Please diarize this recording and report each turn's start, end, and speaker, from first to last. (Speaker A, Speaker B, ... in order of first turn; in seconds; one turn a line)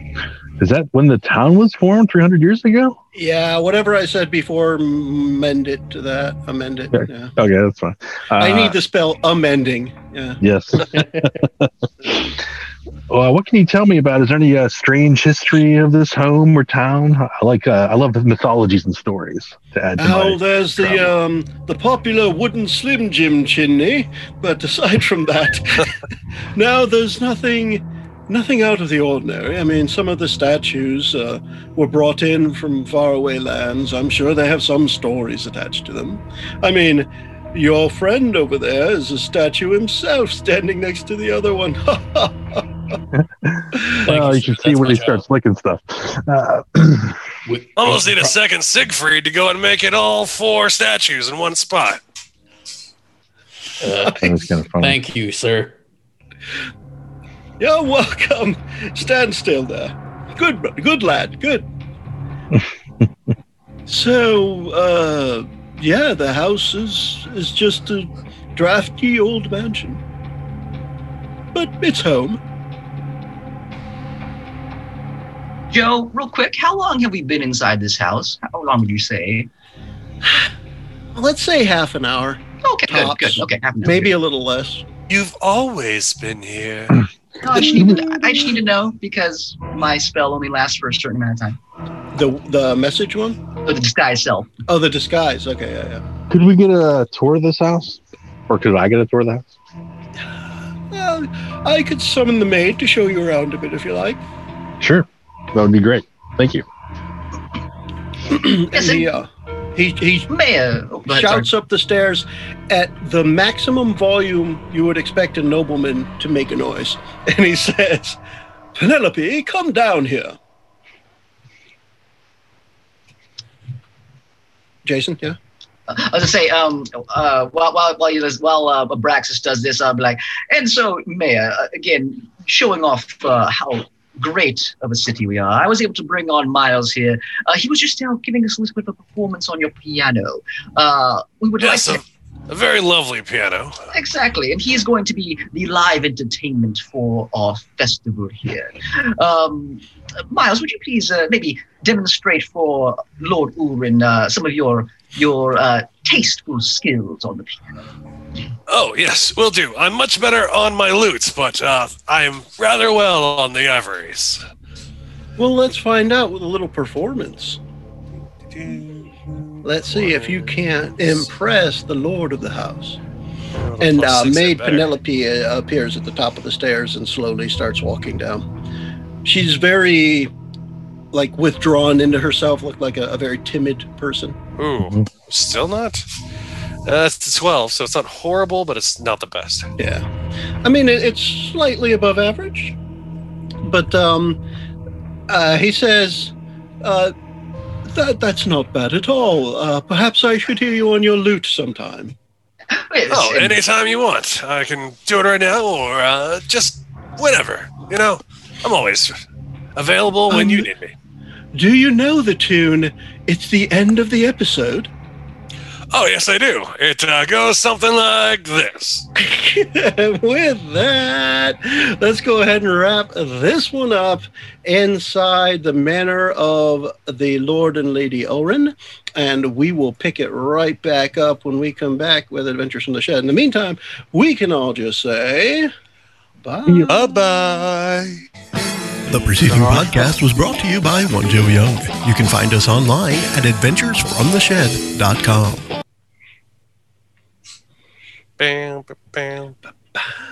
Speaker A: 0.6-3.0
Speaker B: 3.1-7.3
Speaker A: 6.9-8.8
Speaker B: 8.4-10.4
Speaker A: 10.4-12.4
Speaker A: 13.1-21.1
Speaker B: 20.0-25.9
Speaker B: 26.5-42.6
Speaker A: 43.1-47.2
Speaker C: 44.0-45.2
Speaker C: 47.5-48.4
Speaker D: 47.8-52.0
Speaker C: 53.8-55.8
Speaker B: 54.0-54.4
Speaker A: 54.1-55.0
Speaker B: 57.6-61.7
Speaker B: 63.9-70.0
Speaker B: 71.5-72.4
Speaker E: 75.7-79.5
Speaker B: 80.2-80.5
Speaker B: 81.1-84.9
Speaker E: 82.6-84.1
Speaker D: 85.1-87.0
Speaker E: 87.4-91.6
Speaker A: 87.7-88.1
Speaker B: 92.1-93.4
Speaker E: 93.7-94.5
Speaker B: 94.7-96.0
Speaker A: 96.3-99.5
Speaker B: 100.9-104.2
Speaker A: 104.8-106.6
Speaker B: 108.3-110.3
Speaker E: 108.7-109.1
Speaker E: 110.3-111.5
Speaker B: 111.1-118.2
Speaker B: 118.7-120.4
Speaker B: 124.8-125.4
Speaker E: 125.9-142.0
Speaker D: 141.6-143.9
Speaker E: 143.9-157.8
Speaker D: 158.7-164.4
Speaker B: 165.4-167.6
Speaker D: 168.5-170.5
Speaker B: 169.6-173.0
Speaker D: 173.6-174.9
Speaker B: 173.8-178.4
Speaker B: 179.2-180.3
Speaker B: 181.1-184.4
Speaker D: 184.6-186.1
Speaker D: 186.9-189.7
Speaker B: 189.8-190.1
Speaker B: 190.6-192.8
Speaker B: 193.6-194.4
Speaker B: 195.3-197.1
Speaker B: 197.8-202.1
Speaker E: 202.7-203.6
Speaker D: 203.1-209.1
Speaker D: 209.8-210.9
Speaker B: 210.3-210.7
Speaker B: 211.5-214.9
Speaker D: 215.9-219.1
Speaker B: 219.1-235.7
Speaker B: 236.4-236.9
Speaker D: 236.9-238.1
Speaker F: 239.1-245.6
Speaker A: 239.4-240.1
Speaker D: 248.4-249.6